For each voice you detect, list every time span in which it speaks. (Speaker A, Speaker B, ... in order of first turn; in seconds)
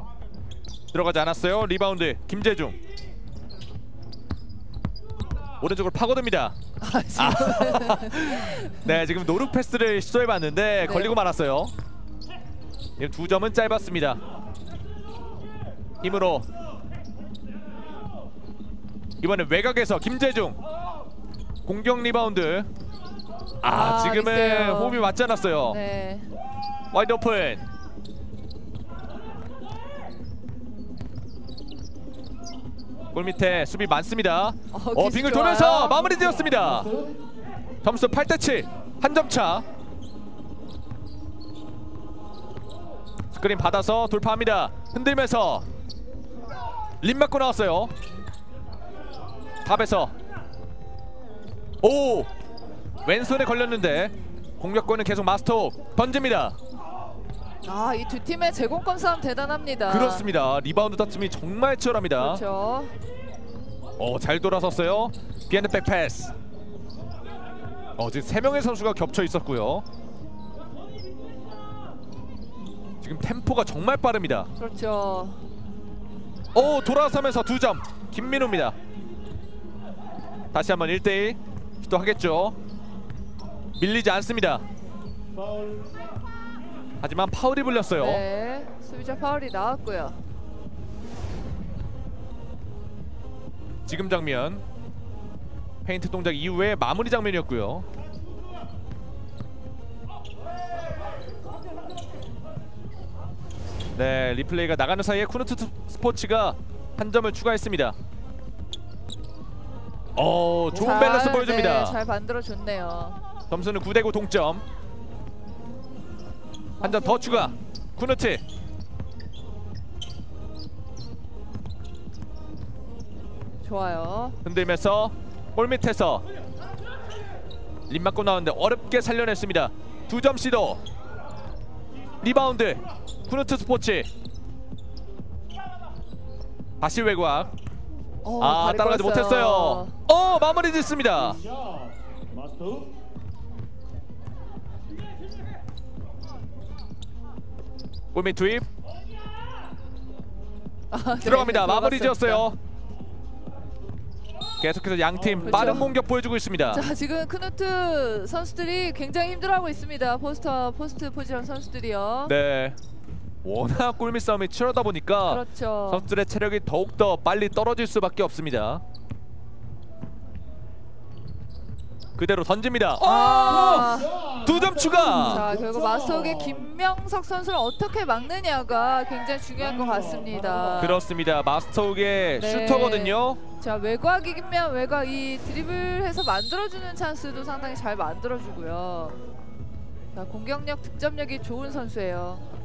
Speaker A: 0.9-2.8, 5.6-6.6, 7.2-11.7, 13.0-14.2, 16.0-16.5, 19.2-20.6, 21.7-22.7, 23.6-25.8, 26.9-27.6, 33.1-36.9, 37.8-39.6, 43.3-45.6, 47.0-47.9, 49.6-50.1, 51.8-52.3, 53.0-56.6, 59.9-62.4, 64.0-66.3, 68.0-69.8, 73.0-74.5, 76.5-78.8, 80.5-82.6, 83.8-84.7, 87.0-88.2, 93.9-94.6, 95.8-97.9, 104.0-108.0, 110.2-112.0, 113.5-114.7, 116.8-118.4, 124.4-126.2, 127.9-130.8, 132.2-134.1, 136.8-137.5, 138.4-141.4, 148.1-148.7, 151.2-152.6, 154.6-156.9, 162.3-162.8, 163.4-168.8, 172.2-175.5, 180.8-183.4
Speaker B: 6.8-9.0, 10.8-11.1, 23.6-25.1, 25.6-26.3, 34.7-36.2, 57.6-60.3, 62.2-62.9, 74.6-75.4, 88.0-90.2, 110.7-113.2, 123.6-124.4, 138.2-140.0, 150.9-152.5, 155.4-156.0, 156.7-162.3, 165.3-166.1, 173.0-174.2, 175.1-181.0, 182.4-189.2, 190.2-192.4
Speaker C: 36.2-37.2, 85.3-85.9, 116.8-117.6, 141.2-142.9, 173.5-176.7, 179.6-181.0